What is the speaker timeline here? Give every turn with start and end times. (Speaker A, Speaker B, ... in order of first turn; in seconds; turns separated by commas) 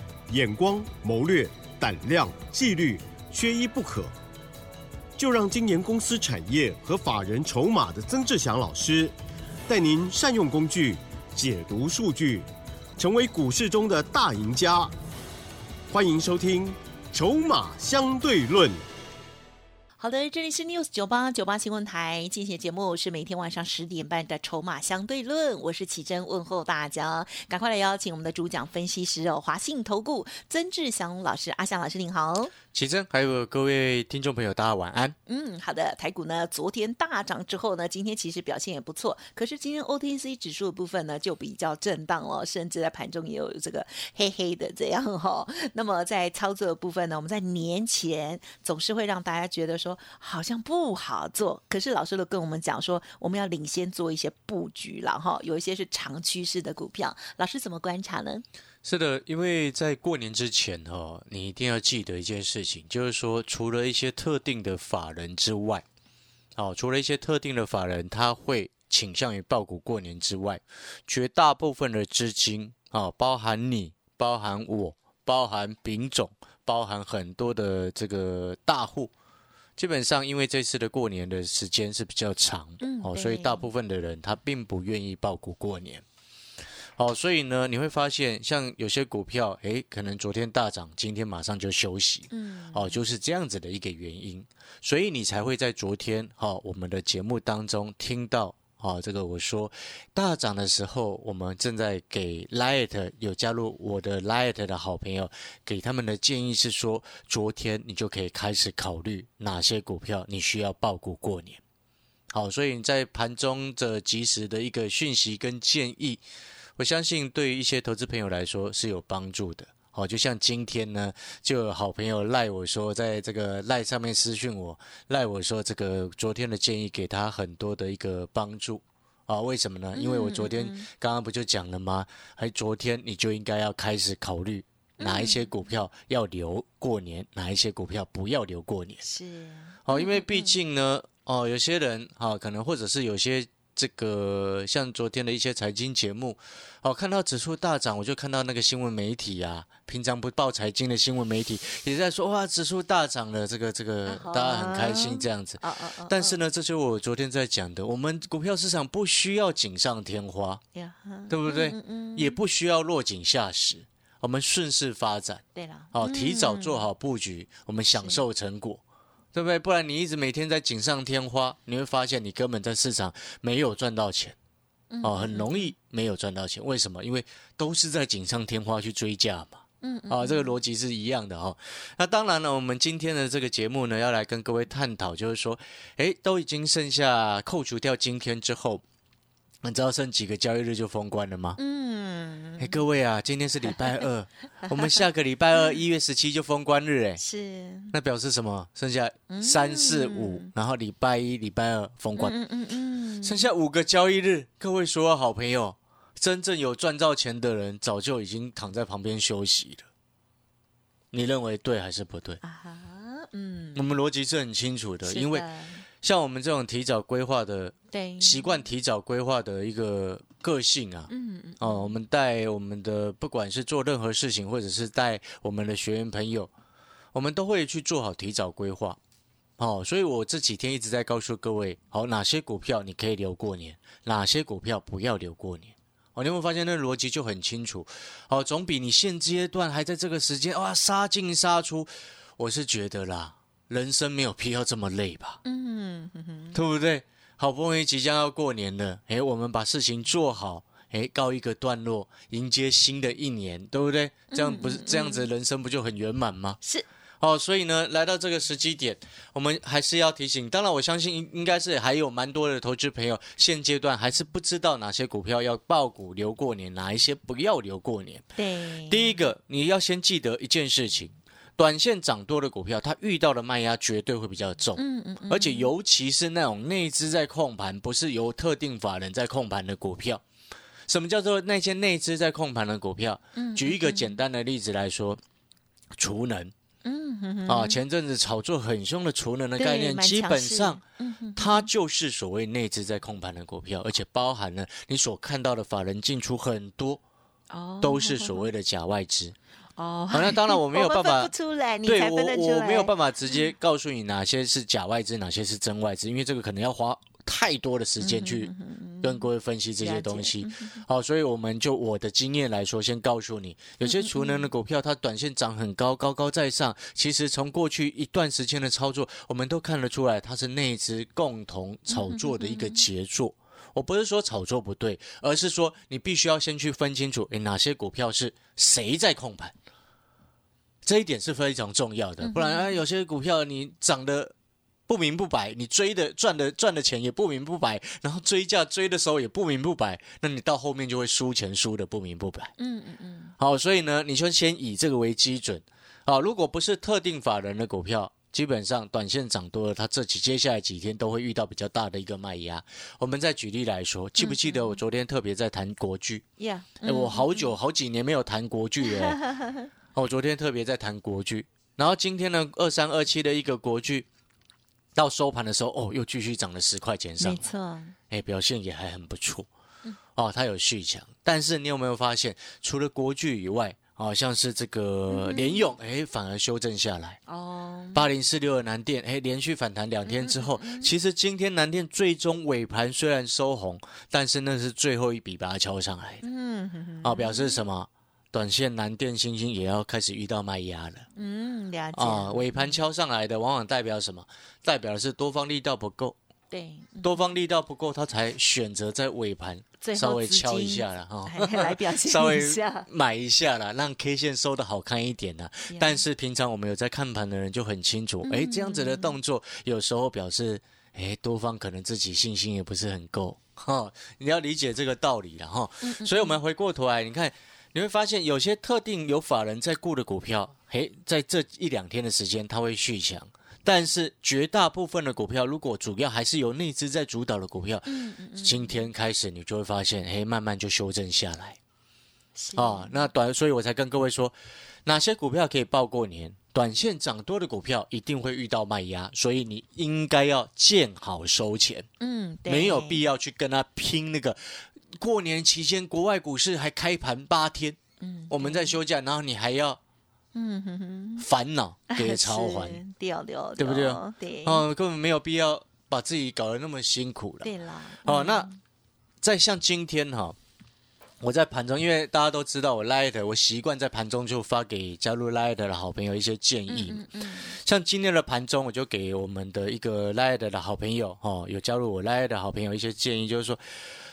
Speaker A: 0.3-4.1, Speaker A: 5.2-9.1, Speaker A: 9.7-12.5, Speaker A: 13.0-14.9, Speaker A: 15.9-18.8, Speaker B: 20.0-32.5, Speaker C: 32.7-35.1, Speaker B: 35.2-58.4, Speaker C: 58.8-65.8, Speaker C: 66.5-79.1, Speaker C: 79.8-86.0, Speaker B: 82.8-83.7, Speaker C: 87.0-111.6, Speaker B: 92.3-93.0, Speaker C: 112.3-116.2, Speaker C: 116.8-139.0, Speaker B: 129.9-130.9, Speaker B: 135.0-135.6, Speaker B: 139.0-140.5, Speaker C: 139.8-160.6, Speaker B: 154.0-156.4, Speaker B: 160.7-162.4, Speaker C: 161.3-168.8, Speaker B: 165.5-166.9, Speaker B: 167.9-168.2, Speaker C: 169.3-174.3, Speaker B: 174.9-175.7, Speaker C: 175.0-188.8, Speaker B: 179.8-180.6, Speaker C: 189.6-191.6, Speaker B: 191.6-192.8, Speaker C: 192.6-197.2, Speaker B: 197.2-197.9, Speaker C: 197.9-202.3, Speaker B: 199.3-200.5, Speaker B: 202.2-203.5, Speaker C: 203.2-209.8, Speaker C: 211.1-212.4, Speaker B: 212.4-213.8, Speaker C: 213.7-215.5, Speaker B: 215.0-215.8, Speaker C: 216.0-226.5, Speaker B: 217.9-218.5, Speaker B: 221.1-221.9, Speaker C: 227.1-229.0, Speaker C: 229.6-245.4, Speaker B: 245.4-246.6, Speaker C: 246.5-256.6, Speaker B: 254.3-255.3, Speaker B: 256.6-256.9, Speaker C: 257.2-268.2, Speaker B: 268.4-269.2, Speaker C: 268.8-280.2, Speaker B: 274.7-275.7, Speaker C: 280.9-285.2, Speaker B: 283.3-284.2, Speaker C: 286.0-286.5, Speaker B: 286.8-287.8, Speaker C: 287.5-290.8, Speaker B: 289.6-291.7, Speaker C: 291.4-297.0, Speaker B: 297.5-298.5, Speaker C: 297.8-299.3, Speaker B: 299.7-303.5, Speaker C: 300.1-301.3, Speaker C: 301.8-329.5, Speaker B: 308.0-309.3, Speaker B: 309.8-310.8, Speaker B: 313.8-314.5, Speaker B: 321.9-322.9, Speaker C: 330.8-334.3, Speaker B: 332.2-332.8, Speaker C: 334.9-342.5, Speaker B: 342.6-343.3, Speaker C: 343.4-356.2, Speaker B: 354.2-354.8, Speaker B: 356.4-357.6, Speaker C: 356.8-359.3, Speaker B: 358.9-359.7, Speaker C: 359.9-364.1, Speaker C: 364.9-367.5, Speaker B: 367.2-367.9, Speaker C: 368.1-369.5, Speaker C: 370.1-377.2, Speaker B: 375.1-375.7, Speaker B: 377.3-378.1, Speaker C: 377.9-386.2, Speaker B: 380.1-380.9, Speaker B: 386.2-387.7, Speaker C: 387.0-391.1, Speaker B: 391.1-392.8, Speaker C: 391.9-396.1, Speaker B: 396.5-397.3, Speaker C: 397.0-431.6, Speaker B: 399.8-402.9, Speaker B: 405.7-406.0, Speaker B: 408.2-409.2, Speaker B: 415.8-416.4, Speaker B: 427.8-428.9, Speaker B: 432.3-433.1, Speaker C: 432.5-434.3, Speaker C: 434.9-441.9, Speaker B: 442.0-443.1, Speaker C: 442.4-447.8, Speaker B: 448.0-448.8, Speaker C: 448.3-449.8, Speaker B: 450.3-451.3, Speaker C: 451.2-452.8, Speaker B: 451.9-454.6, Speaker C: 453.6-457.5, Speaker B: 457.4-458.6, Speaker C: 458.0-458.5, Speaker C: 459.2-460.4, Speaker C: 461.2-473.6, Speaker B: 466.7-467.6